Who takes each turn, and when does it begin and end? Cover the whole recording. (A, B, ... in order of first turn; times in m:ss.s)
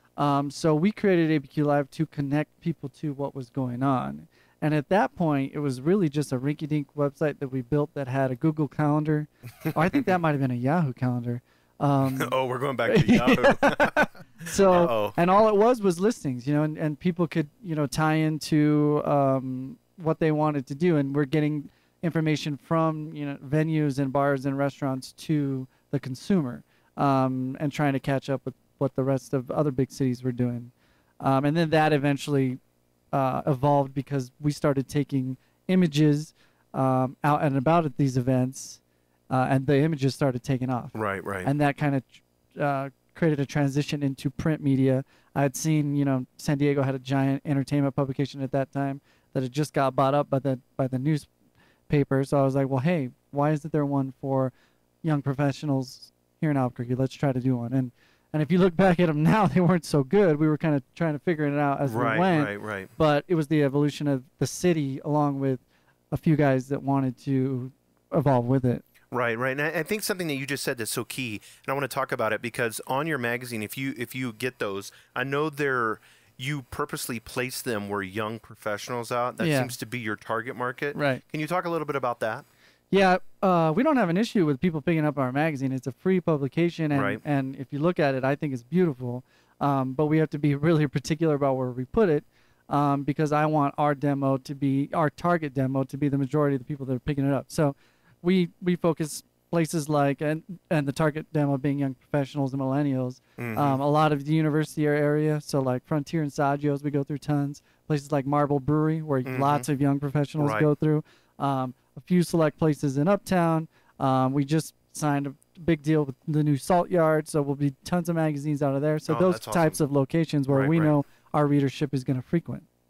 0:00.2-0:32.6 A
0:12.2-0:15.2 B
0:33.1-0:51.3 A
0:40.9-0:41.5 B
0:51.9-0:54.5 A
0:55.0-1:08.8 A
1:01.9-1:02.9 B
1:09.1-1:22.4 B
1:19.4-1:19.7 A
1:20.9-1:21.2 A
1:22.9-2:02.7 A
1:26.9-1:27.2 B
1:43.4-1:43.8 B
1:49.2-1:49.6 B
1:50.4-1:50.7 B
1:59.1-1:59.8 B
2:00.5-2:00.9 B